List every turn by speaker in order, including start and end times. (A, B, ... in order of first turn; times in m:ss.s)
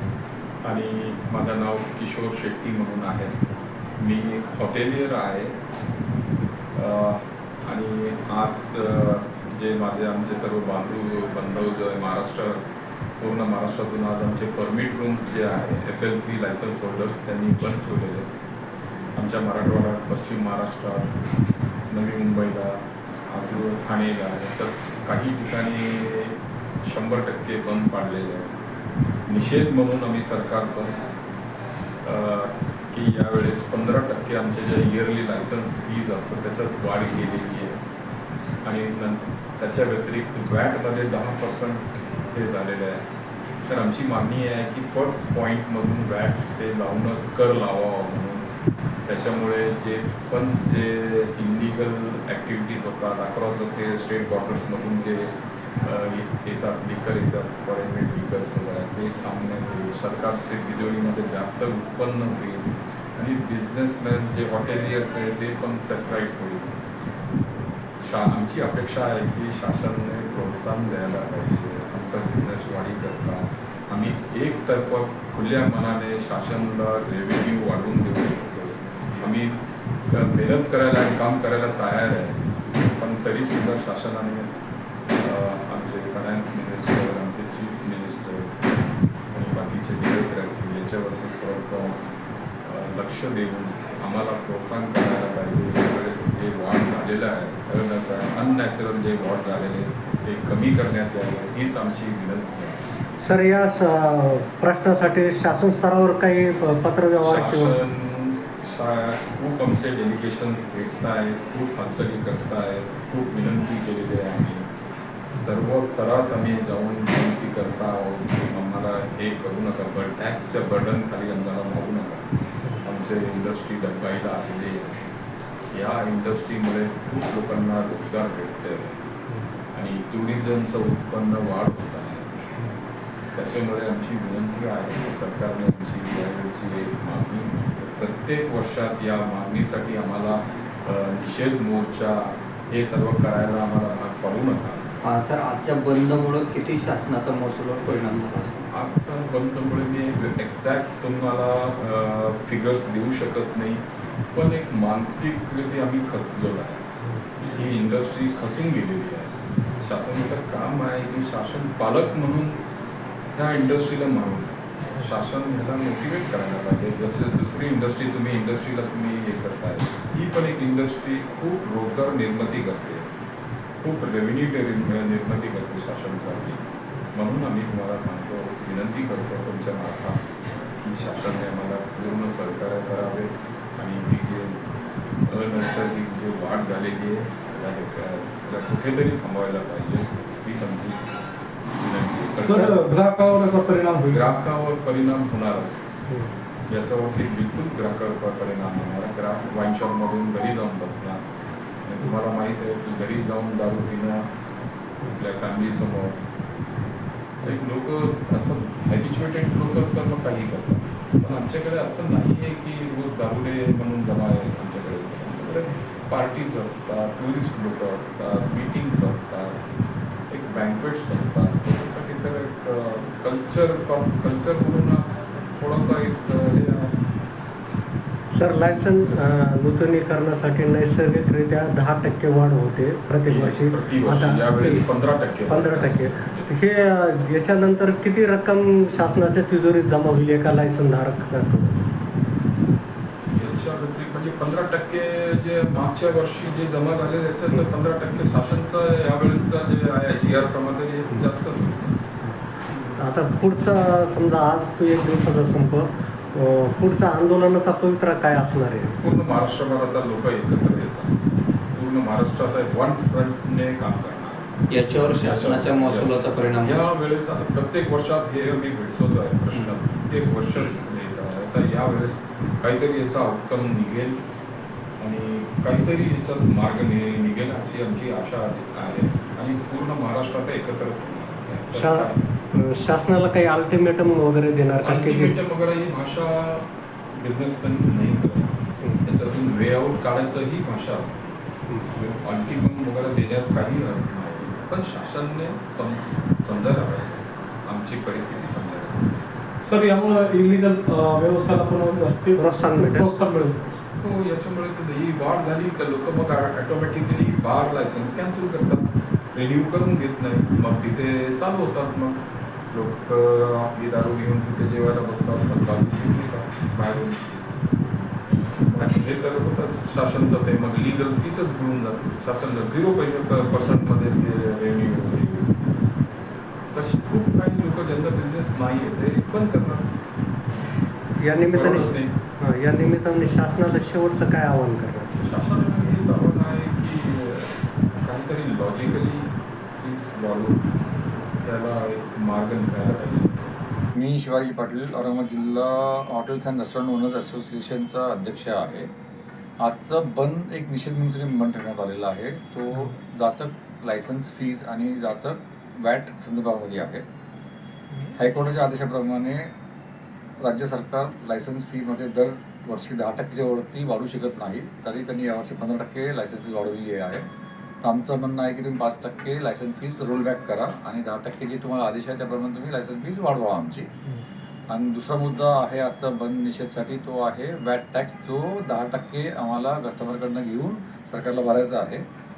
0:00.6-0:03.4 A
0:04.0-0:05.6 A
0:06.8-0:12.7 A
0:13.2-0:18.3 A
0:19.2-0:21.2 A
0:21.9-0:28.5 A
0:29.3-0:31.0 A
0:32.0-0:37.8 A
0:38.6-0:43.1 A
0:43.7-0:48.5 A
0:49.1-1:06.7 A
1:08.0-1:24.5 A
1:25.1-1:28.6 A
1:29.3-1:32.0 A
1:32.6-1:42.9 A
1:43.2-1:47.8 B
1:47.2-1:54.7 A
1:55.3-2:02.3 A
2:02.8-2:05.0 A
2:05.7-2:09.0 A
2:09.7-2:12.3 A
2:13.3-2:25.0 A
2:25.0-2:28.7 C
2:28.7-2:36.8 A
2:37.5-2:42.6 A
2:43.3-2:53.1 A
2:53.8-3:00.2 A
3:00.8-3:11.0 A
3:11.7-3:12.9 A
3:12.4-3:14.2 D
3:14.1-3:15.9 A
3:16.7-3:21.3 A
3:21.8-3:24.3 A
3:25.0-3:26.2 A
3:27.4-3:39.6 A
3:40.3-3:47.0 A
3:48.4-3:54.9 B
3:53.3-3:56.6 A
3:55.5-4:01.8 B
4:03.3-4:12.0 A
4:13.0-4:19.1 B
4:19.0-4:21.2 A
4:21.7-4:34.2 A
4:24.7-4:26.8 C
4:35.0-4:42.2 A
4:41.7-4:45.4 B
4:44.8-4:59.2 A
4:59.6-5:03.8 D
5:02.4-5:03.1 B
5:04.0-5:12.2 A
5:12.7-5:17.3 A
5:18.6-5:25.6 A
5:26.7-5:29.9 A
5:31.2-5:35.1 B
5:31.4-5:32.2 A
5:35.2-5:40.6 A
5:41.4-5:43.6 A
5:44.0-5:48.9 E
5:49.6-5:57.0 E
5:58.2-5:59.5 E
6:00.4-6:07.3 E
6:07.8-6:13.9 E
6:14.7-6:22.0 E